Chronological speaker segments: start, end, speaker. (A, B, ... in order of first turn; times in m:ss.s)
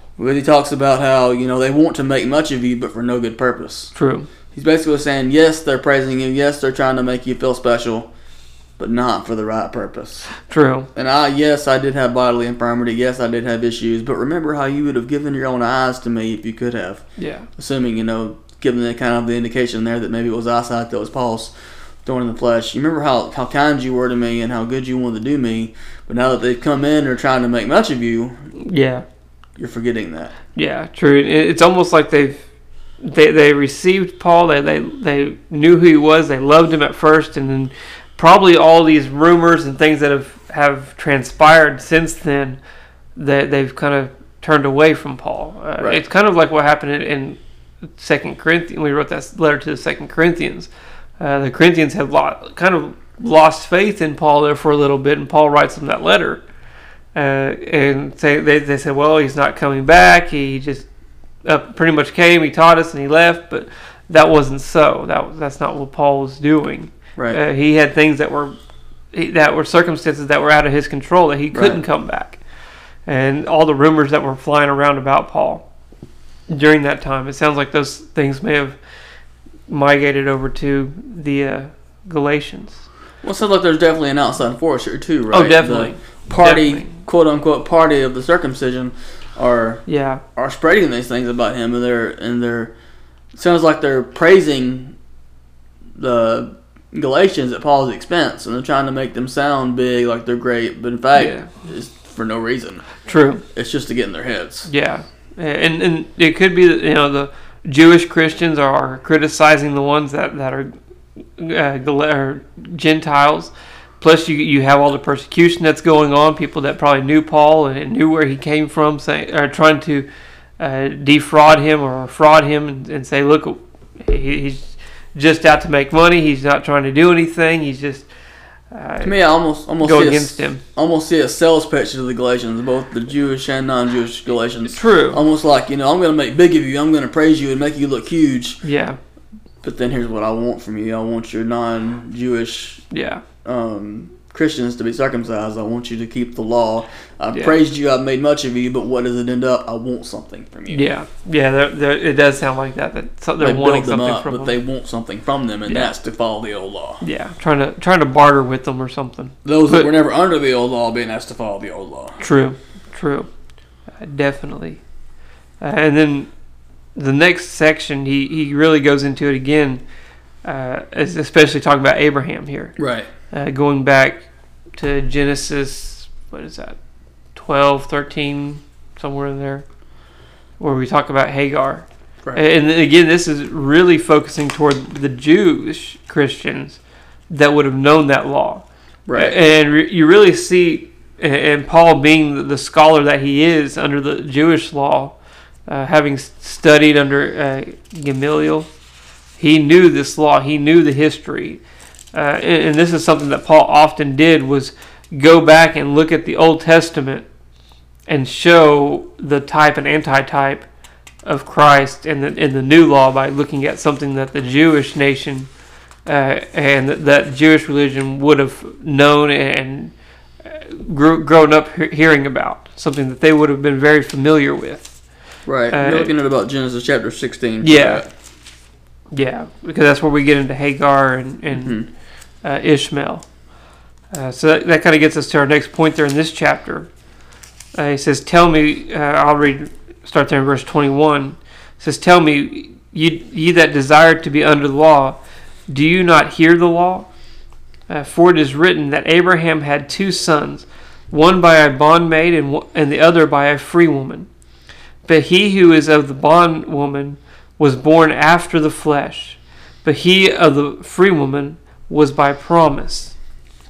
0:00.2-0:03.9 A
0:03.9-0:04.3 B
0:04.5-0:08.1 A
0:08.8-0:10.3 A
0:10.5-0:10.9 B
0:10.9-0:17.0 A
0:17.2-0:17.5 B
0:17.6-0:21.5 A
0:22.0-0:28.4 A
0:28.6-0:29.0 B
0:29.6-0:30.3 A
0:30.6-0:32.4 B
0:33.0-0:42.6 B
0:43.2-0:47.4 B
0:48.0-0:56.4 B
0:57.1-1:00.9 B
1:01.4-1:08.5 B
1:09.1-1:12.4 B
1:11.5-1:11.8 A
1:13.1-1:15.6 B
1:16.5-1:18.8 B
1:19.7-1:22.8 B
1:23.2-1:29.8 A
1:25.3-1:26.9 B
1:29.9-1:30.2 B
1:30.4-1:32.7 A
1:33.3-1:35.0 A
1:36.0-1:42.9 A
1:41.1-1:41.5 B
1:43.0-1:43.4 B
1:43.5-1:44.7 A
1:44.7-1:50.7 B
1:51.4-2:00.1 B
2:00.6-2:08.1 B
2:08.7-2:09.1 B
2:09.0-2:18.6 A
2:09.8-2:10.6 B
2:14.7-2:15.2 B
2:18.6-2:19.0 B
2:19.6-2:22.8 A
2:22.9-2:23.2 B
2:23.4-2:30.9 A
2:27.3-2:27.6 B
2:30.7-2:34.6 B
2:33.4-2:37.0 A
2:35.7-2:35.9 B
2:37.0-2:39.9 B
2:39.4-2:42.2 A
2:42.2-2:43.3 B
2:44.0-2:44.8 B
2:45.6-2:46.3 B
2:47.0-2:49.8 B
2:50.4-2:52.7 B
2:52.8-2:53.1 A
2:53.3-2:54.2 B
2:54.8-2:56.8 B
2:57.3-2:59.6 B
3:00.6-3:15.2 B
3:09.1-3:09.4 A
3:15.7-3:18.7 B
3:19.4-3:21.6 B
3:22.1-3:27.3 B
3:28.1-3:30.7 B
3:31.2-3:35.5 B
3:36.0-3:44.9 B
3:45.4-3:48.1 A
3:45.7-3:46.1 B
3:47.6-3:48.0 B
3:49.1-3:51.8 B
3:51.5-3:51.9 A
3:52.4-3:53.2 B
3:54.1-3:56.9 B
3:57.8-4:05.2 B
4:05.7-4:07.1 B
4:07.9-4:14.3 B
4:15.0-4:23.1 B